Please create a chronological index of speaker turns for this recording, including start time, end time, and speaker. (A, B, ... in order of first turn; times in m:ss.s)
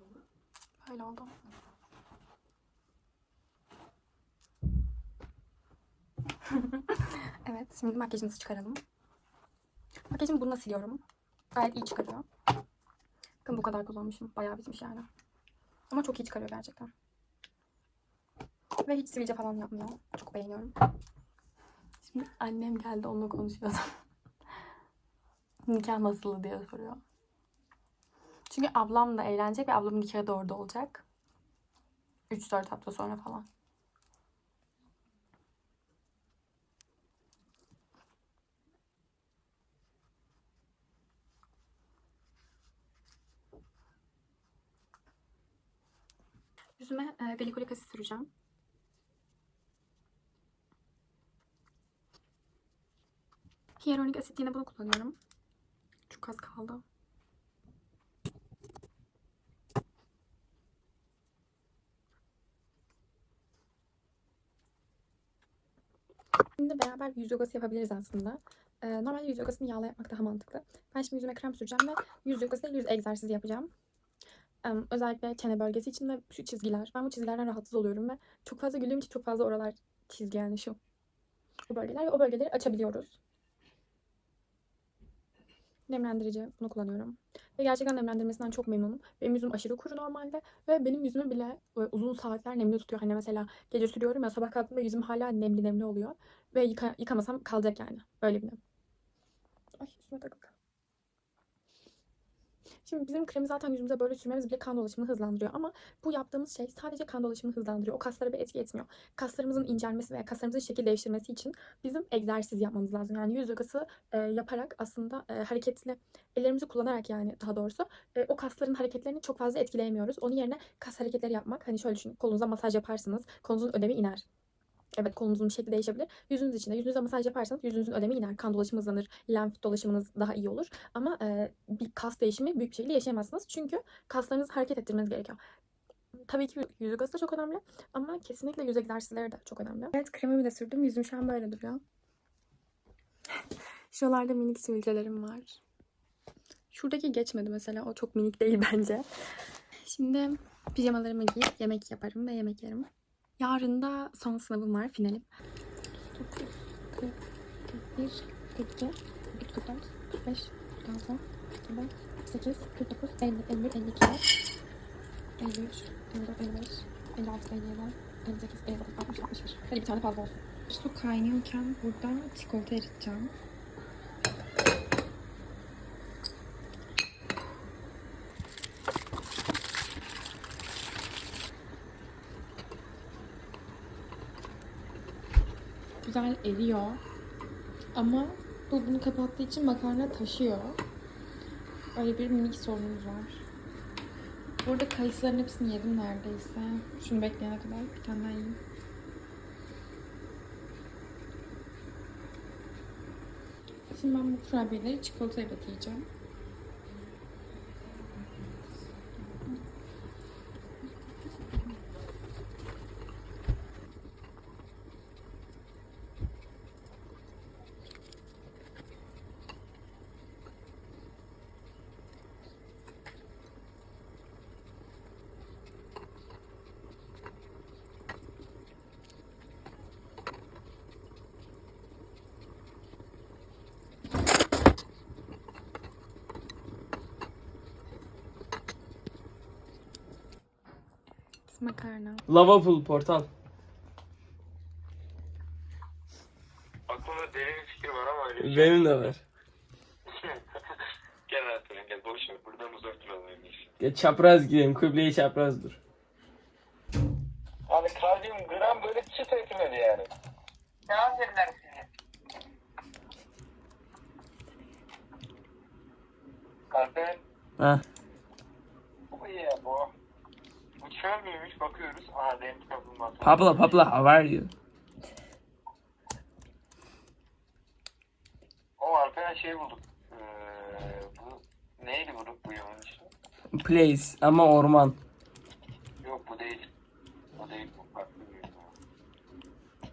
0:00.8-0:01.3 A
0:06.5-0:08.8 A
0:10.1-0:11.0 A
0:11.6-0:12.2 A
0:13.4-0:15.1 A
0:15.9-0:16.9 A
0:18.8-0:20.7 A
0:22.0-0:24.0 A
0:25.7-0:27.0 A
0:28.5-0:31.0 A
0:32.3-0:33.5 A
0:46.8-0:48.3 A
0:53.8-0:55.2 A
0:56.1-0:56.8 A
1:06.6-1:13.7 A
1:14.6-1:20.8 A
1:21.7-1:23.2 A
1:25.9-1:38.6 A
1:39.8-1:40.5 A
1:42.8-2:04.2 A
2:04.9-2:15.4 A
2:16.3-2:21.8 A
2:23.9-2:25.6 A
2:26.7-2:29.1 A
2:29.8-2:35.3 A
2:36.0-2:44.2 A
2:45.4-2:53.3 A
3:06.0-3:07.0 A
3:07.9-3:10.8 A
3:12.0-3:13.4 A
3:14.6-3:18.6 A
3:23.9-3:26.1 A
4:01.5-4:02.2 A
4:02.3-4:03.3 B
4:06.9-4:09.1 C
4:08.4-4:09.2 B
4:10.1-4:10.4 C
4:11.3-4:13.7 C
4:13.8-4:15.8 B
4:17.7-4:20.1 C
4:20.9-4:21.8 C
4:26.7-4:27.2 C
4:29.1-4:29.9 C
4:30.8-4:33.7 C
4:33.2-4:34.5 B
4:38.8-4:43.1 C
4:43.5-4:45.0 B
4:46.0-4:46.7 C
4:47.4-4:48.7 C